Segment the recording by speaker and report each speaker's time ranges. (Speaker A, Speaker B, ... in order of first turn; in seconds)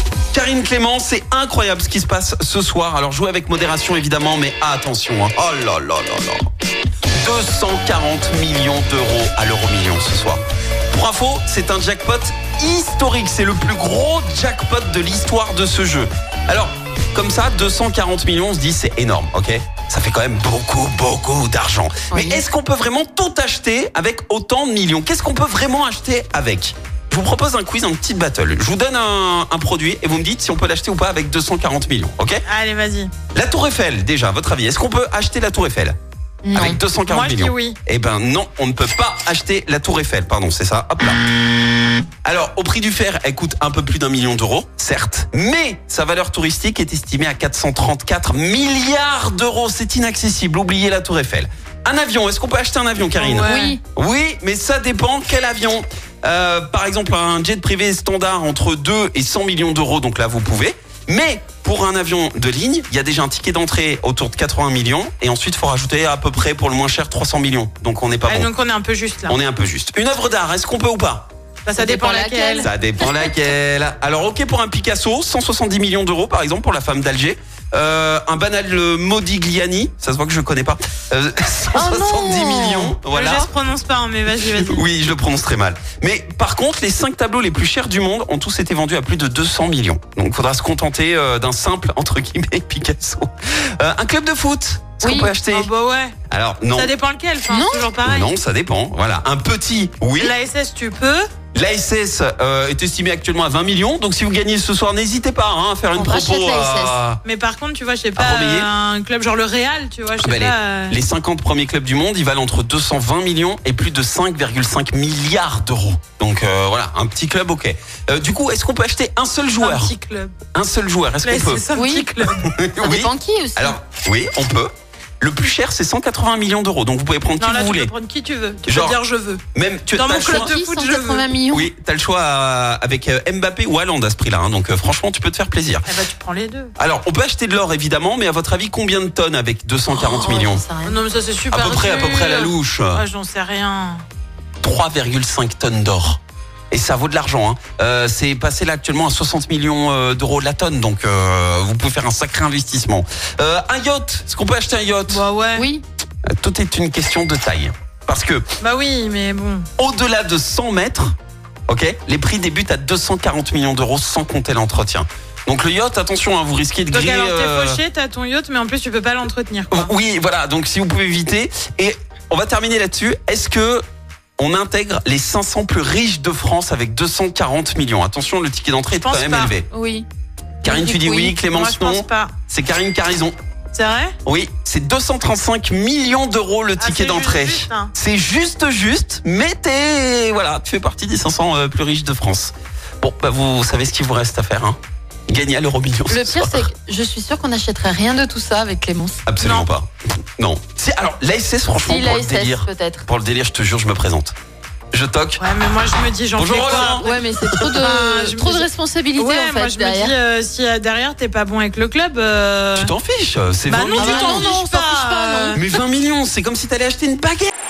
Speaker A: 0.3-6.5, 7.2-32.4, 33.3-36.0, 36.5-41.2, 42.2-68.5, 69.3-71.3, 72.6-83.5, 84.5-95.7, 96.3-96.9, 98.0-100.3, 101.5-107.2, 108.2-108.7, 110.2-119.9, 120.5-121.6, 122.4-127.9, 128.7-129.0, 129.5-130.5, 131.5-135.9, 136.8-140.6, 141.5-143.0, 144.6-155.2, 156.3-158.4, 159.8-161.1, 161.7-167.8, 169.7-173.8, 174.4-179.7, 180.6-183.3, 184.2-196.7, 199.2-204.3, 204.9-205.4, 206.3-207.1, 212.8-214.6, 215.5-217.5
Speaker B: 22.1-22.4, 36.4-36.8, 53.4-53.8, 71.8-73.5, 81.7-83.0, 95.0-95.3, 97.5-97.9, 105.9-107.0, 121.7-122.1, 122.8-123.8, 130.1-131.7, 139.9-141.0, 155.5-155.8, 179.7-180.1, 180.6-181.3, 196.1-199.2, 201.8-203.1, 206.8-210.1, 214.0-215.6
Speaker C: 32.5-33.1, 37.1-37.8, 53.1-53.8, 68.2-69.4, 71.7-72.7, 83.1-84.8, 95.5-96.1, 96.7-98.3, 100.2-101.3, 107.2-111.0, 119.6-120.3, 121.2-122.5, 127.4-129.4, 129.9-131.3, 135.8-136.7, 140.8-144.0, 155.1-155.7, 158.6-159.7, 166.9-169.9, 179.0-179.5, 181.4-182.3, 183.7-184.1, 186.8-187.9, 199.4-199.7, 205.4-207.1, 207.6-212.9, 213.7-215.6